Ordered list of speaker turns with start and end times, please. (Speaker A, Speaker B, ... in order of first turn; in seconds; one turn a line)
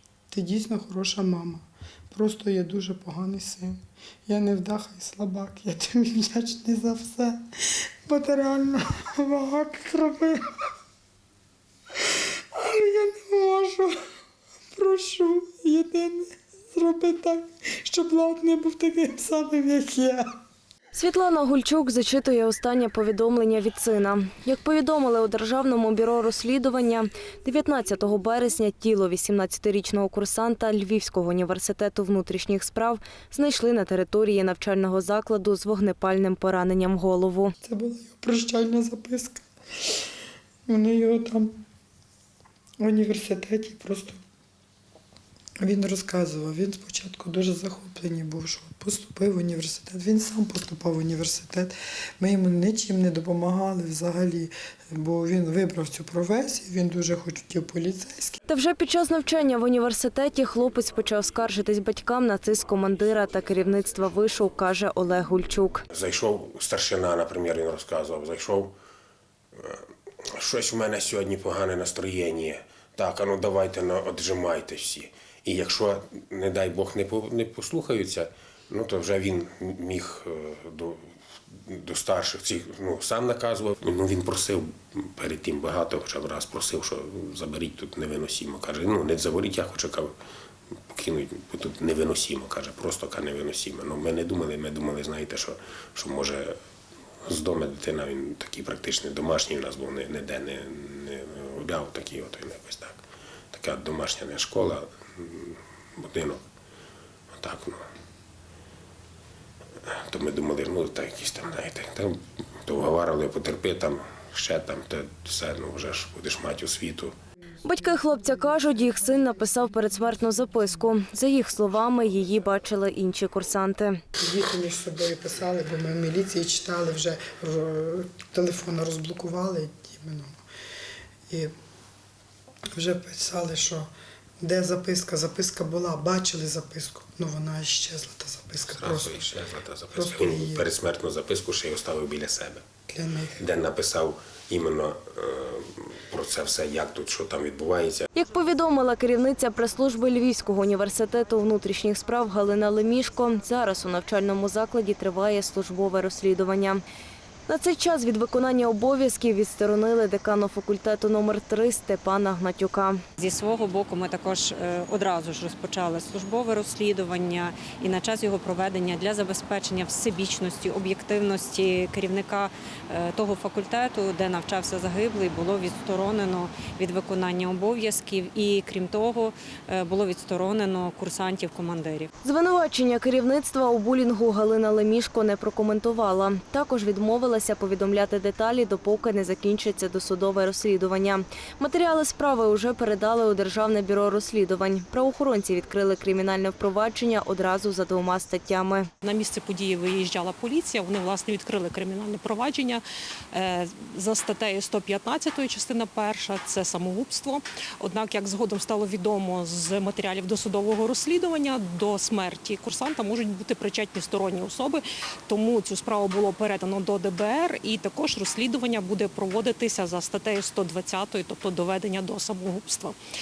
Speaker A: 0.3-7.4
Speaker A: 8.1-10.4
Speaker A: 12.6-14.0
Speaker A: 14.8-20.3
Speaker B: 20.9-37.5
Speaker A: 37.6-39.4
Speaker A: 40.7-41.5
Speaker A: 42.8-44.2
Speaker A: 45.6-58.4
Speaker B: 58.5-65.8
Speaker C: 65.9-68.7
Speaker C: 69.6-69.8
Speaker C: 70.4-90.1
Speaker C: 90.9-96.5
Speaker C: 97.3-103.0
Speaker C: 103.5-106.4
Speaker C: 107.4-107.8
Speaker C: 109.9-117.2
Speaker B: 117.6-124.0
Speaker A: 124.2-130.4
Speaker A: 132.7-133.9
Speaker A: 134.4-139.4
Speaker C: 138.7-142.6
Speaker A: 139.9-140.7
Speaker A: 142.9-143.4
Speaker C: 143.4-148.1
Speaker B: 148.1-156.8
Speaker B: 157.5-163.0
Speaker D: 163.2-182.1
Speaker B: 182.2-198.9
Speaker E: 199.0-223.0